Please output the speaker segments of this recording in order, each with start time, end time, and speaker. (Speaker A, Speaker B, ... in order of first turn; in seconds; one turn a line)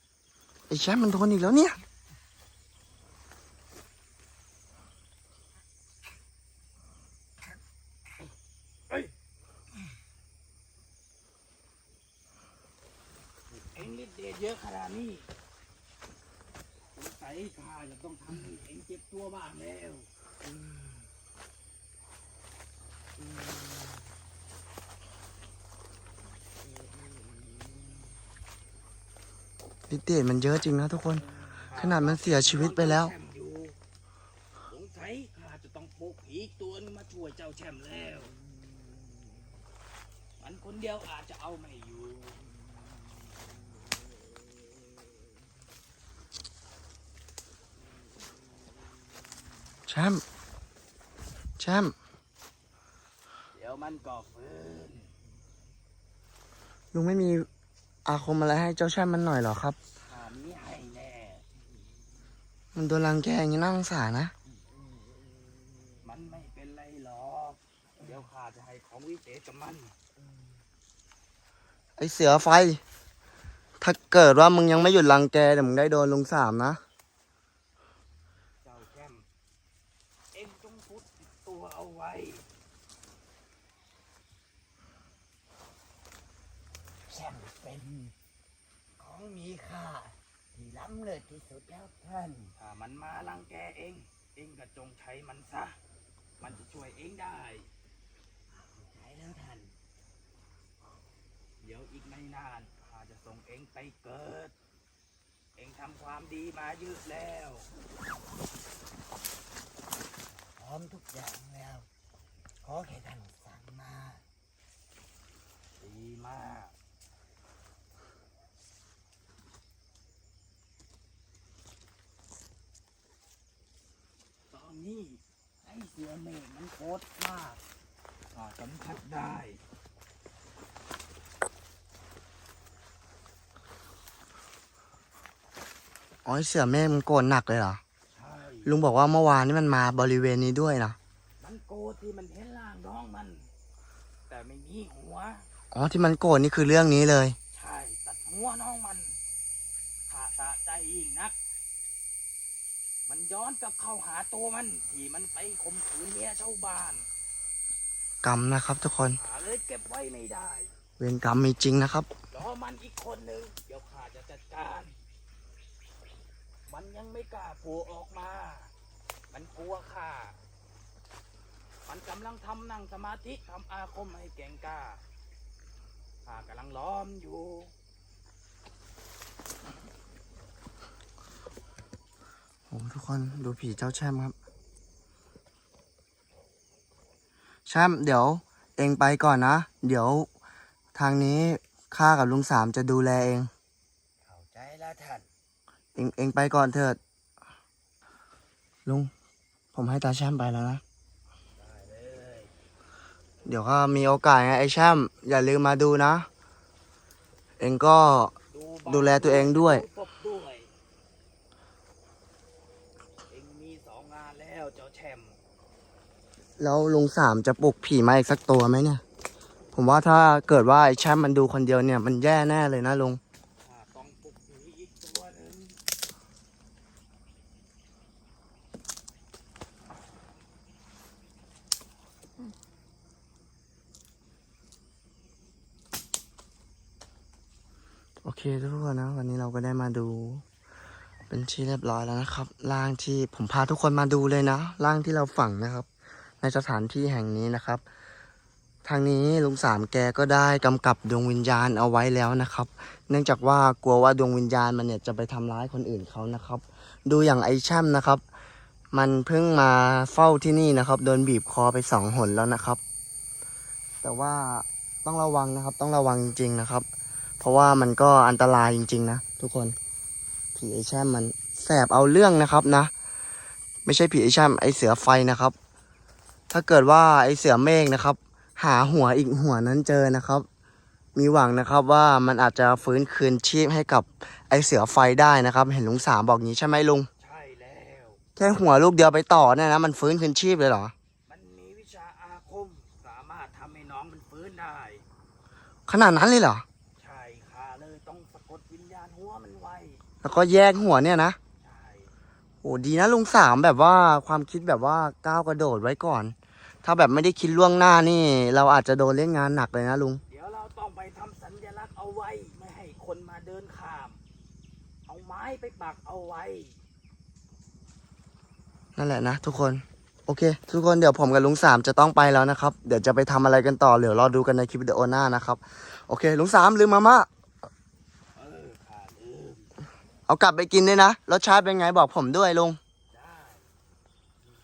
Speaker A: 0.7-1.8
Speaker B: 13.7-15.3
Speaker B: 17.0-20.1
Speaker B: 20.6-20.9
Speaker A: 29.9-33.1
Speaker B: 31.6-33.8
Speaker B: 34.7-38.3
Speaker B: 40.4-42.4
Speaker A: 49.9-50.2
Speaker A: 51.6-52.0
Speaker B: 53.5-55.1
Speaker A: 56.9-57.5
Speaker A: 58.1-59.8
Speaker B: 60.0-61.5
Speaker A: 62.8-64.3
Speaker B: 66.0-70.0
Speaker A: 72.0-72.8
Speaker A: 73.8-76.8
Speaker B: 78.6-79.3
Speaker B: 80.3-82.5
Speaker C: 87.1-88.2
Speaker C: 89.0-92.5
Speaker B: 92.6-95.8
Speaker B: 96.4-97.7
Speaker C: 98.5-99.8
Speaker B: 101.6-104.5
Speaker B: 105.6-107.7
Speaker C: 110.5-111.9
Speaker C: 112.6-114.3
Speaker B: 115.8-116.8
Speaker B: 124.5-127.6
Speaker B: 128.3-129.6
Speaker A: 136.2-137.8
Speaker B: 138.1-138.7
Speaker A: 138.7-141.0
Speaker B: 141.4-143.5
Speaker B: 144.3-145.5
Speaker A: 145.7-147.4
Speaker B: 147.5-149.2
Speaker B: 150.1-151.4
Speaker B: 153.1-157.1
Speaker A: 158.2-159.2
Speaker B: 159.1-160.7
Speaker A: 161.0-162.1
Speaker B: 162.3-164.9
Speaker B: 166.7-168.7
Speaker B: 169.3-170.4
Speaker B: 171.9-175.0
Speaker B: 176.2-177.7
Speaker A: 182.7-184.4
Speaker A: 187.7-190.3
Speaker A: 190.9-193.5
Speaker C: 194.2-195.3
Speaker A: 196.0-197.0
Speaker A: 198.9-199.1
Speaker A: 199.7-200.8
Speaker B: 201.6-202.5
Speaker A: 203.4-206.3
Speaker A: 207.6-208.3
Speaker B: 208.5-210.7
Speaker A: 208.9-209.8
Speaker B: 213.3-215.4
Speaker A: 216.6-219.0
Speaker A: 219.7-223.2
Speaker B: 223.6-225.8
Speaker A: 238.2-240.4
Speaker A: 241.3-245.9
Speaker A: 246.4-247.8
Speaker A: 248.8-258.2
Speaker A: 258.9-262.8
Speaker A: 264.0-266.9
Speaker A: 267.4-269.8
Speaker A: 270.6-272.9
Speaker A: 273.9-275.6
Speaker A: 276.5-280.5
Speaker A: 281.2-287.1
Speaker B: 287.2-288.2
Speaker A: 288.4-290.9
Speaker B: 291.3-295.1
Speaker A: 295.9-296.6
Speaker B: 297.0-300.0
Speaker A: 300.2-301.4
Speaker B: 301.6-302.1
Speaker A: 302.6-310.2
Speaker B: 310.3-314.2
Speaker B: 315.1-316.8
Speaker A: 319.0-327.3
Speaker B: 328.4-329.7
Speaker A: 330.3-332.8
Speaker B: 333.1-333.8